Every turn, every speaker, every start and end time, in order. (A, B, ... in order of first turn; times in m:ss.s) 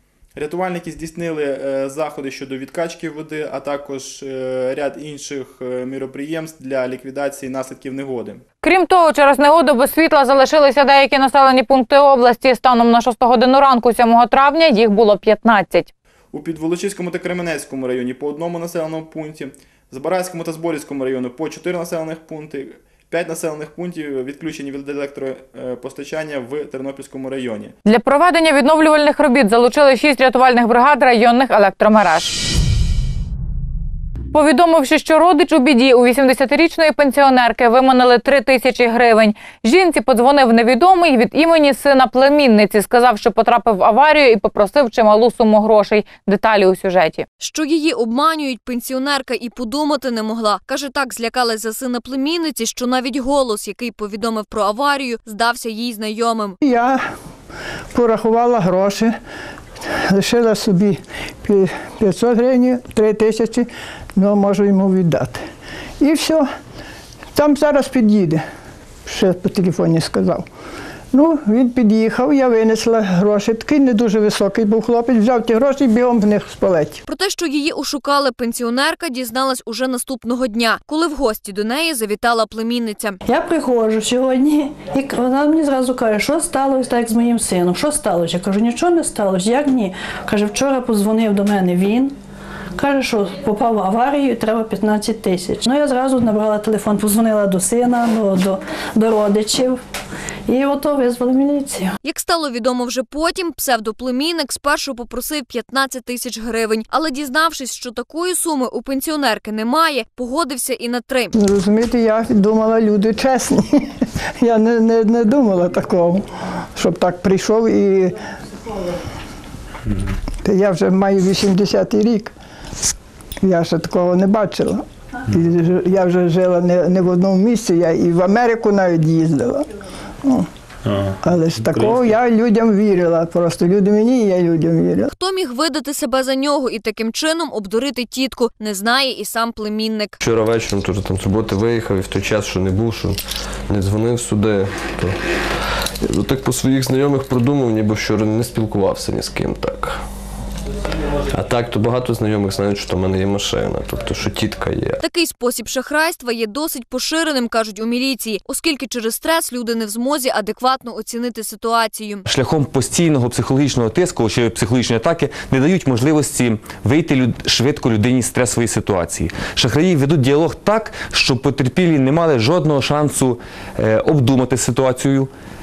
0:00.4-0:08.4 A
0:08.6-0:15.9 B
0:16.3-0:27.7 A
0:27.8-0:32.4 B
0:34.3-0:47.2 B
0:47.4-0:56.6 C
0:56.6-0:57.1 D
0:57.9-0:59.2 D
1:00.1-1:05.4 D
1:06.0-1:06.5 D
1:07.3-1:08.4 D
1:09.1-1:10.4 D
1:11.1-1:17.0 D
1:17.1-1:23.2 C
1:23.2-1:32.1 E
1:32.8-1:39.8 E
1:40.5-1:41.9 E
1:42.0-1:51.3 C
1:51.4-1:53.8 D
1:54.4-1:56.2 D
1:56.8-1:58.1 D
2:00.4-2:02.3 D
2:03.4-2:09.6 D
2:11.2-2:15.1 D
2:15.1-2:20.2 C
2:20.2-2:23.2 F
2:23.7-2:25.1 F
2:26.1-2:29.9 F
2:31.4-2:35.0 F
2:35.0-2:42.2 C
2:42.3-2:55.3 G